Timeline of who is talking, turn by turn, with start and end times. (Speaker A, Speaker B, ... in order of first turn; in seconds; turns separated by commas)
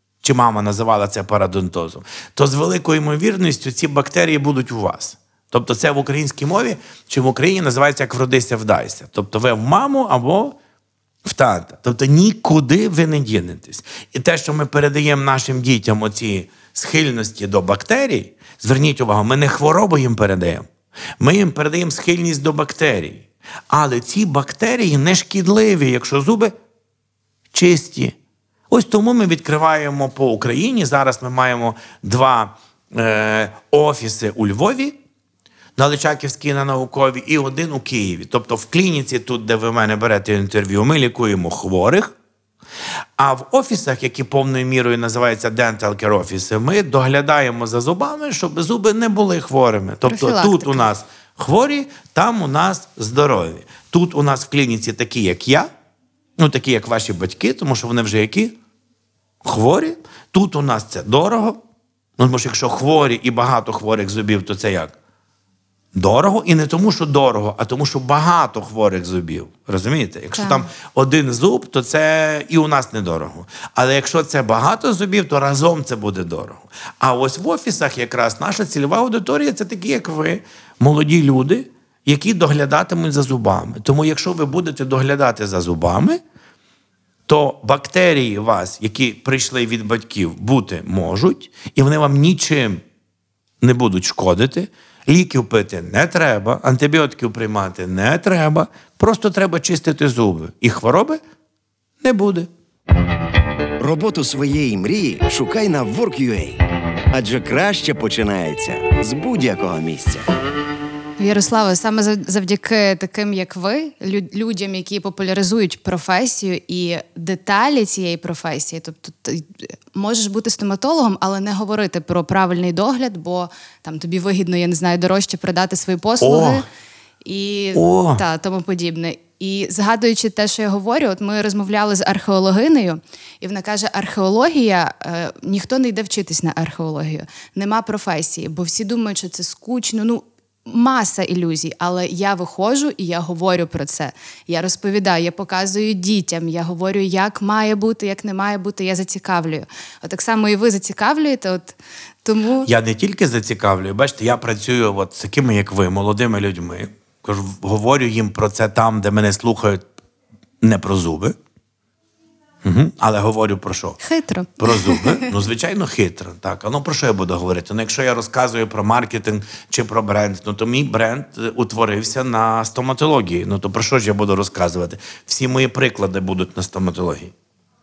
Speaker A: 0.2-10.6, Speaker A: 11.2-20.7, Speaker A: 21.2-26.5, Speaker A: 27.5-28.1, Speaker A: 28.7-35.0, Speaker A: 35.8-42.1, Speaker A: 43.2-55.7, Speaker B: 50.1-50.9, Speaker A: 56.4-58.6, Speaker A: 59.4-61.6, Speaker A: 62.2-65.0, Speaker A: 65.9-86.2, Speaker B: 70.3-70.7, Speaker A: 87.3-92.8, Speaker A: 93.6-101.2, Speaker A: 102.0-102.5, Speaker C: 103.8-106.6, Speaker C: 107.1-110.3, Speaker B: 111.2-126.7, Speaker A: 126.2-126.7, Speaker B: 127.2-152.7, Speaker A: 127.7-128.2, Speaker A: 152.6-159.9, Speaker A: 160.6-161.3, Speaker A: 162.6-164.0, Speaker B: 164.0-165.3, Speaker A: 164.6-177.3